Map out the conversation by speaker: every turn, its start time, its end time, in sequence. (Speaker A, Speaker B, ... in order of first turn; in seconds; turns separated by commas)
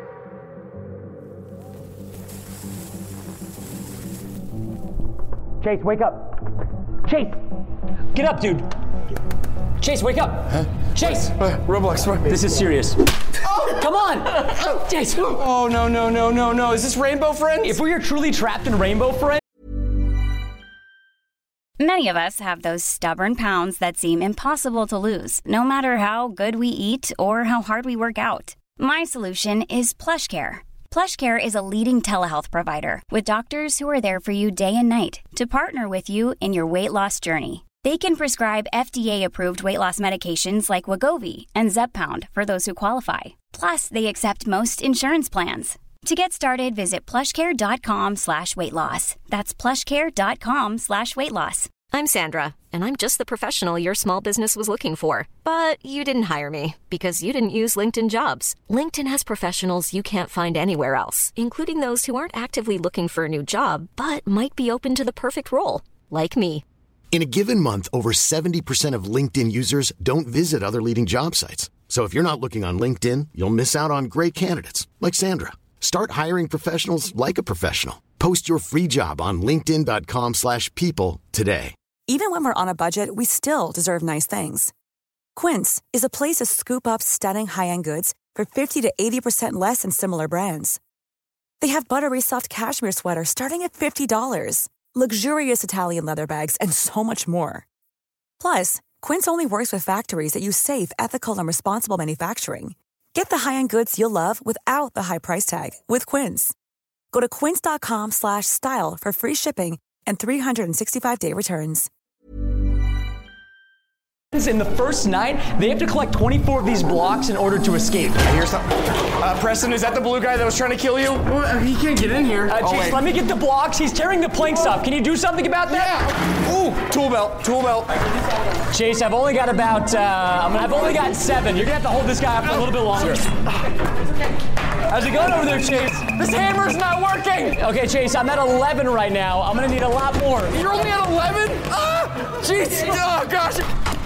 Speaker A: 5.6-6.4, Speaker A: 7.0-7.4, Speaker A: 8.1-8.7, Speaker A: 9.8-11.3, Speaker B: 10.5-12.4, Speaker A: 12.2-13.0, Speaker A: 13.6-15.4, Speaker B: 15.4-17.8, Speaker A: 17.6-19.4, Speaker C: 21.8-51.7, Speaker D: 51.9-66.6, Speaker E: 67.1-81.7, Speaker F: 82.1-84.7, Speaker F: 85.4-90.8, Speaker F: 91.6-97.7, Speaker F: 98.4-106.5, Speaker F: 107.1-111.9, Speaker A: 114.3-118.2, Speaker B: 118.2-123.0, Speaker A: 122.5-125.9, Speaker B: 125.7-127.9, Speaker A: 128.7-133.2, Speaker A: 134.9-136.1, Speaker B: 136.1-137.6, Speaker A: 137.6-140.5, Speaker B: 140.5-143.7